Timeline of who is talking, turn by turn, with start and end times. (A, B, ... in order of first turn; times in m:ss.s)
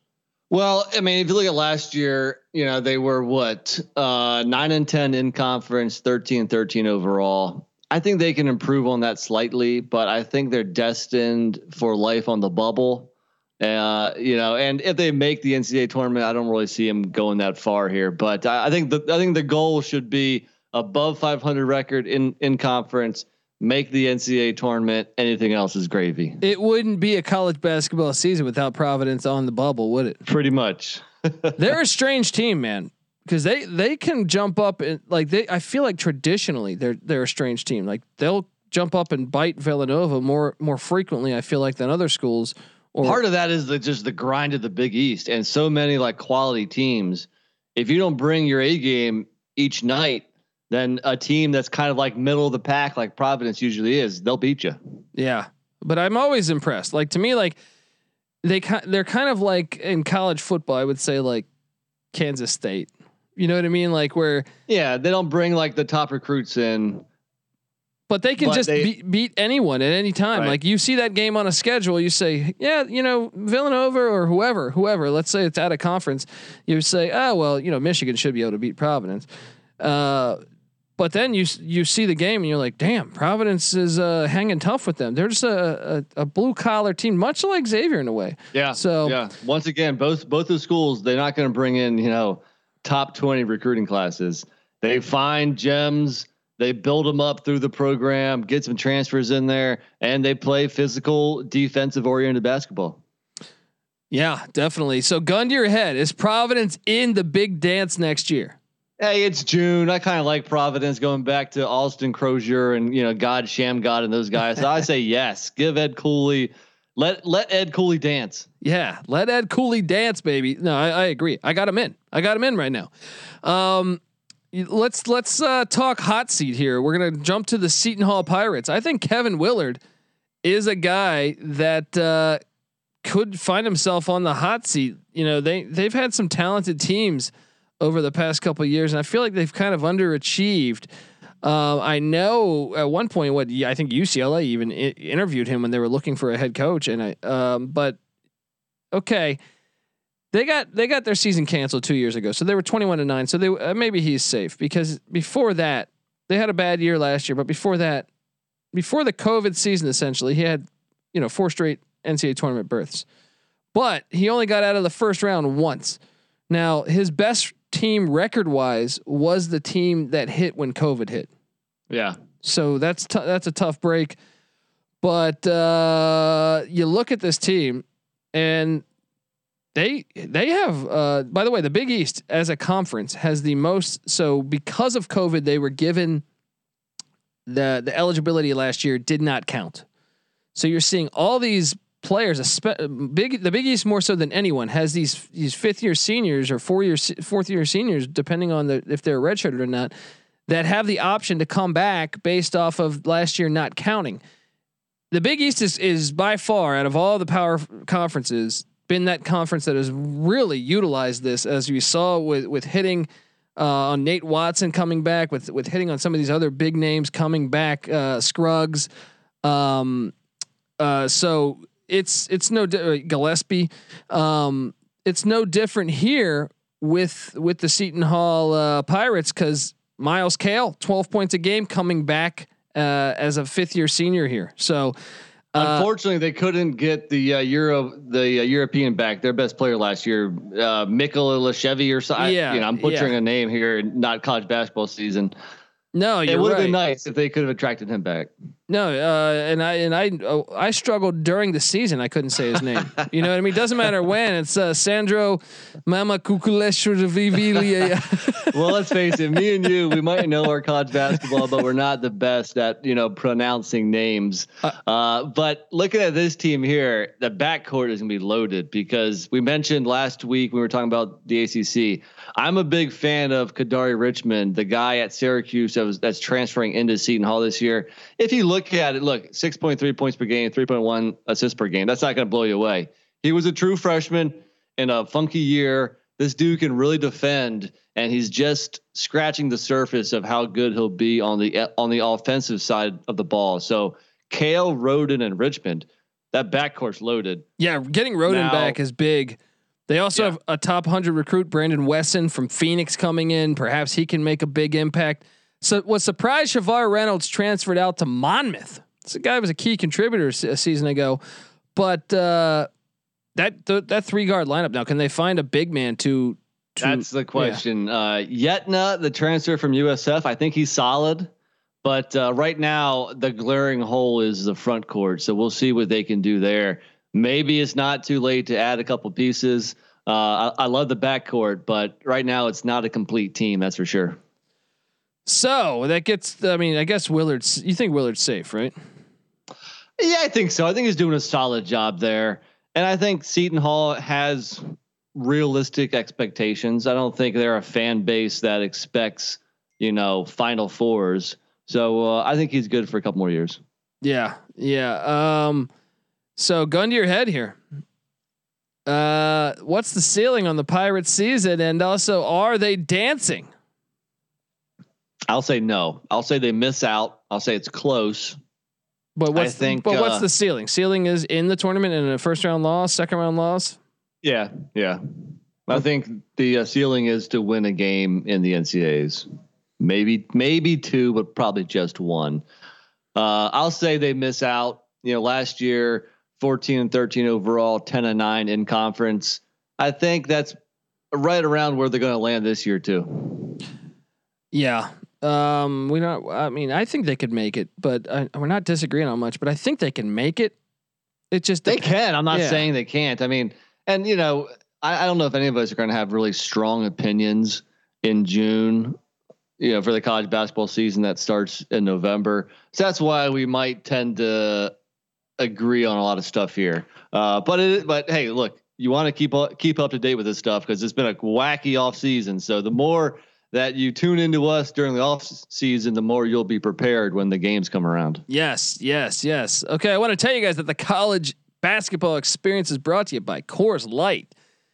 0:00.5-0:26.4 A
0:26.4-0:30.2 B
0:30.2-0:31.6 A
0:31.6-0:43.2 B
0:43.0-0:54.8 A
0:55.1-0:57.6 B
0:58.4-1:01.5 B
1:02.1-1:04.4 B
1:04.7-1:07.0 A
1:08.1-1:19.3 B
1:08.4-1:08.9 A
1:19.8-1:20.4 B
1:21.0-1:29.2 B
1:28.5-1:43.0 A
1:44.1-1:48.6 B
1:49.0-1:58.5 A
1:58.6-2:02.9 B
2:03.4-2:04.0 B
2:04.5-2:09.8 B
2:10.4-2:12.4 B
2:13.0-2:20.9 B
2:21.4-2:28.0 B
2:28.9-2:29.4 B
2:30.3-2:38.1 B
2:38.7-2:43.0 B
2:43.7-2:46.0 B
2:46.5-2:51.3 B
2:51.9-2:52.2 A
2:52.4-2:54.2 B
2:55.0-2:58.8 B
2:59.7-3:06.2 B
3:07.5-3:09.8 B
3:10.5-3:19.9 B
3:20.5-3:24.2 B
3:25.1-3:38.9 B
3:39.4-3:40.1 B
3:40.8-3:54.9 B
3:55.5-3:55.9 B
3:55.5-4:05.3 A
4:02.2-4:03.1 B
4:05.9-4:06.8 B
4:06.3-4:08.3 A
4:08.7-4:18.7 B
4:18.5-4:57.4 A
4:57.6-5:11.2 B
4:58.3-4:58.8 A
5:11.7-5:12.7 B
5:13.4-5:17.6 B
5:16.8-5:21.3 A
5:21.8-5:34.2 A
5:35.2-5:38.7 B
5:40.0-5:53.6 A
5:54.0-5:55.7 B
5:56.4-5:57.6 B
5:58.8-6:03.5 B
6:05.3-6:08.4 A
6:09.2-6:13.8 B
6:09.3-6:10.2 A
6:14.2-6:15.0 A
6:15.7-6:19.3 A
6:19.8-6:22.4 A
6:23.1-6:30.6 A
6:31.1-6:33.6 A
6:34.5-6:40.5 B
6:41.3-6:42.7 B
6:41.7-6:49.0 A
6:49.6-6:54.7 A
6:55.4-7:08.2 A
7:08.3-7:14.3 B